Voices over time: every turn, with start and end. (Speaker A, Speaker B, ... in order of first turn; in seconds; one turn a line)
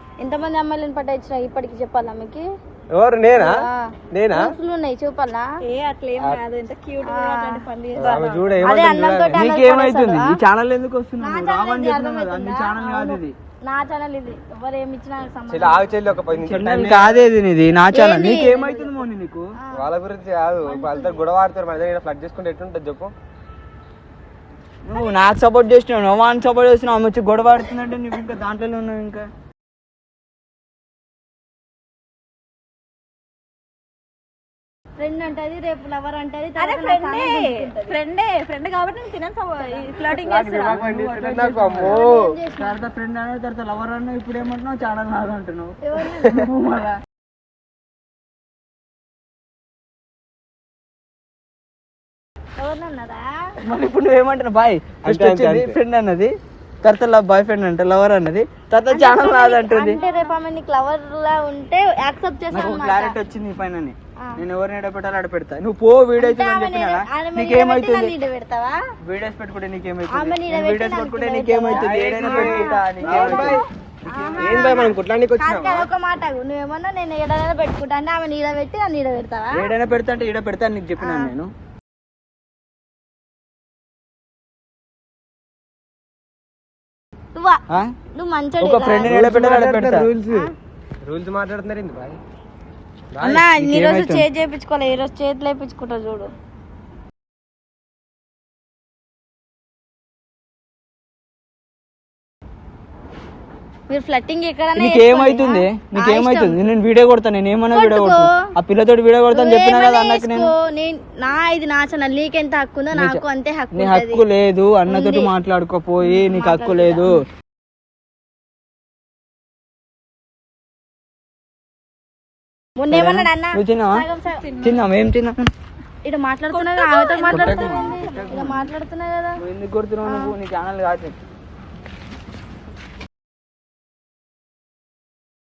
Speaker A: 0.2-2.5
Speaker B: 2.9-3.6
Speaker A: 3.4-5.5
Speaker B: 4.1-4.5
Speaker C: 5.6-8.7
Speaker A: 7.0-10.4
Speaker B: 8.0-9.5
Speaker D: 9.3-13.3
Speaker A: 11.2-13.1
Speaker A: 13.6-16.0
Speaker B: 15.5-17.3
Speaker D: 16.4-19.5
Speaker A: 17.9-19.1
Speaker B: 19.7-23.1
Speaker A: 20.6-21.2
Speaker D: 24.9-29.3
Speaker A: 35.0-38.0
Speaker C: 36.6-40.8
Speaker B: 40.2-42.4
Speaker D: 40.7-42.0
Speaker A: 41.8-42.8
Speaker D: 42.6-47.0
Speaker A: 45.8-46.5
Speaker A: 52.6-53.5
Speaker D: 53.6-56.3
Speaker B: 55.0-55.8
Speaker D: 56.8-60.0
Speaker A: 58.9-63.2
Speaker C: 60.0-60.3
Speaker D: 62.5-68.1
Speaker A: 66.2-68.8
Speaker D: 69.0-74.7
Speaker A: 70.1-79.7
Speaker B: 71.7-73.7
Speaker B: 74.3-75.9
Speaker D: 79.5-81.5
Speaker A: 81.0-81.3
Speaker A: 87.3-87.6
Speaker A: 88.2-89.2
Speaker D: 88.6-90.1
Speaker B: 89.0-90.5
Speaker B: 91.0-92.2
Speaker B: 93.1-93.5
Speaker A: 93.2-96.3
Speaker D: 93.3-94.3
Speaker A: 103.9-106.7
Speaker D: 104.8-110.5
Speaker A: 107.7-108.3
Speaker A: 109.3-114.2
Speaker D: 112.9-117.2
Speaker A: 114.9-115.3
Speaker A: 116.0-117.1
Speaker A: 122.8-124.5
Speaker D: 122.9-124.0
Speaker C: 124.4-124.8
Speaker D: 124.6-125.5
Speaker A: 126.0-129.4
Speaker C: 126.5-128.0
Speaker D: 127.3-128.7
Speaker D: 129.4-131.2
Speaker A: 130.1-130.3